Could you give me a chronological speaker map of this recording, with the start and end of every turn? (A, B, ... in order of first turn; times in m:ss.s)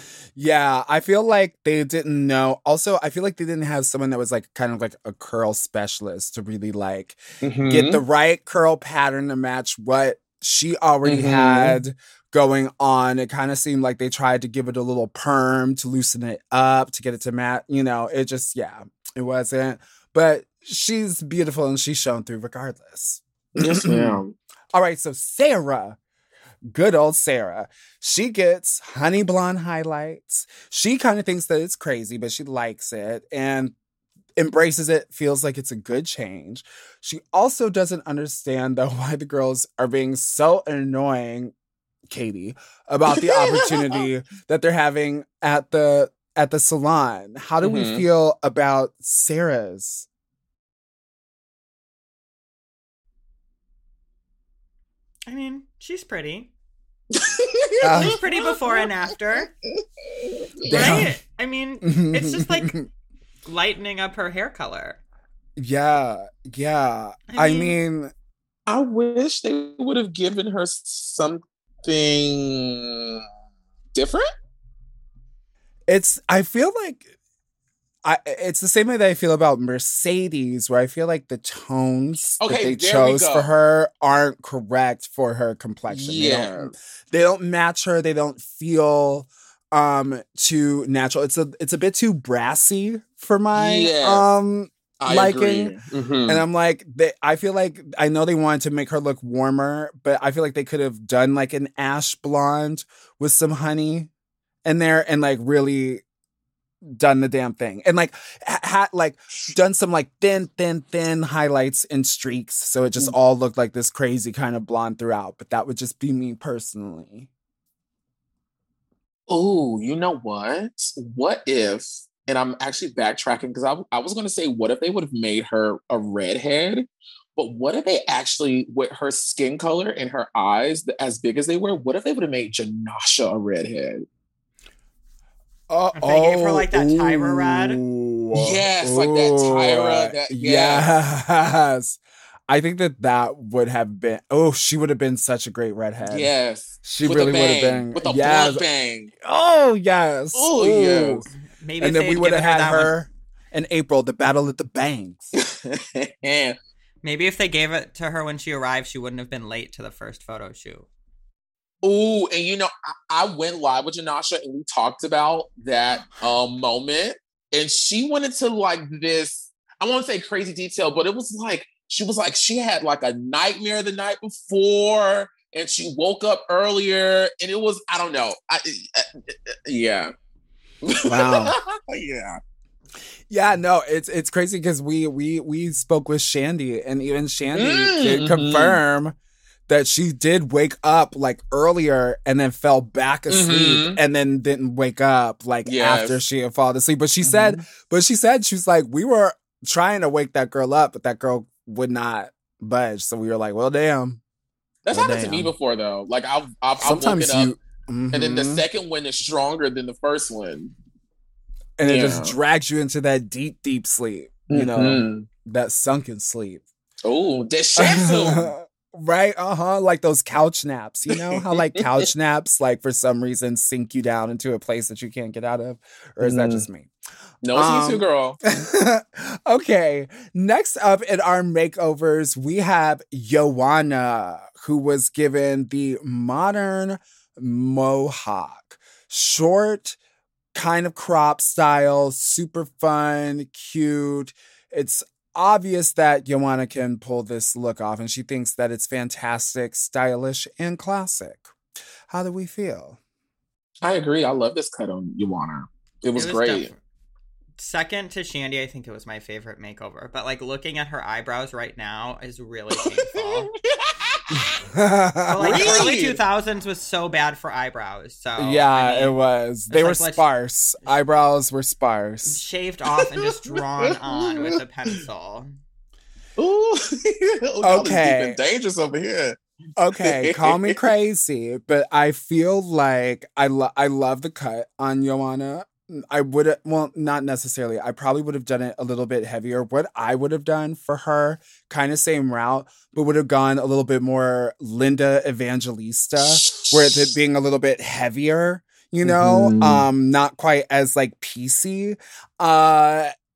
0:00.4-0:24.2 A
0:07.4-0:08.0 B
0:11.0-0:11.8 B
0:23.6-0:24.3 B
0:24.7-0:26.0 A
0:26.7-0:33.8 A
0:34.4-0:41.5 A
0:42.1-0:50.1 A
0:43.1-0:44.0 B
0:47.6-0:48.0 B
0:55.3-0:56.5 C
0:57.1-0:58.9 B
0:57.8-0:58.2 A
0:57.8-0:59.5 C
0:59.7-1:01.0 B
1:00.7-1:01.2 A
1:00.7-1:02.8 C
1:01.8-1:02.8 A
1:03.5-1:05.0 C
1:05.6-1:08.1 A
1:07.3-1:07.8 C
1:08.7-1:13.2 B
1:13.9-1:14.3 B
1:15.9-1:17.1 A
1:18.0-1:35.8 A
1:22.4-1:23.5 B
1:25.9-1:26.8 B
1:33.5-1:34.3 B
1:35.0-1:36.4 B
1:36.3-1:44.1 A
1:44.6-1:46.0 A
1:46.8-1:57.3 A
1:59.3-2:14.1 B
2:15.7-2:28.6 A
2:16.0-2:17.8 C
2:18.3-2:20.9 B
2:26.1-2:29.1 B
2:29.2-2:31.3 A
2:30.3-2:31.3 B
2:31.5-2:33.0 C
2:31.8-2:35.3 A
2:35.4-2:36.6 B
2:37.0-2:40.9 C
2:41.8-3:00.1 B
3:00.8-3:02.4 B
3:01.1-3:01.6 A
3:03.3-3:09.2 A
3:07.6-3:08.8 B
3:09.7-3:24.2 A
3:13.3-3:14.0 B
3:15.6-3:16.2 B
3:17.2-3:17.6 B
3:24.9-3:27.6 B
3:24.9-3:25.5 A
3:26.8-3:28.6 A
3:28.1-3:30.7 B
3:31.8-3:36.6 A
3:31.9-3:32.4 B
3:34.5-3:35.3 B
3:37.0-3:38.5 B
3:37.8-3:46.9 A
3:41.1-3:42.1 B
3:46.2-3:46.7 B
3:47.4-3:48.4 B
3:47.5-4:00.0 A
4:00.5-4:11.5 A
4:12.1-4:13.0 A
4:13.8-4:16.7 B
4:16.2-4:16.8 C
4:17.6-4:23.5 C
4:22.7-4:24.6 B
4:24.3-4:25.9 A
4:25.3-4:29.2 C
4:25.4-4:26.2 B
4:28.4-4:32.4 A
4:29.7-4:30.3 C
4:32.3-4:35.5 C
4:32.9-4:35.0 B
4:36.4-4:39.4 B
4:37.6-4:38.4 A
4:39.8-5:03.1 A
4:40.0-4:40.8 B
4:56.2-4:57.0 B
4:59.0-4:59.9 B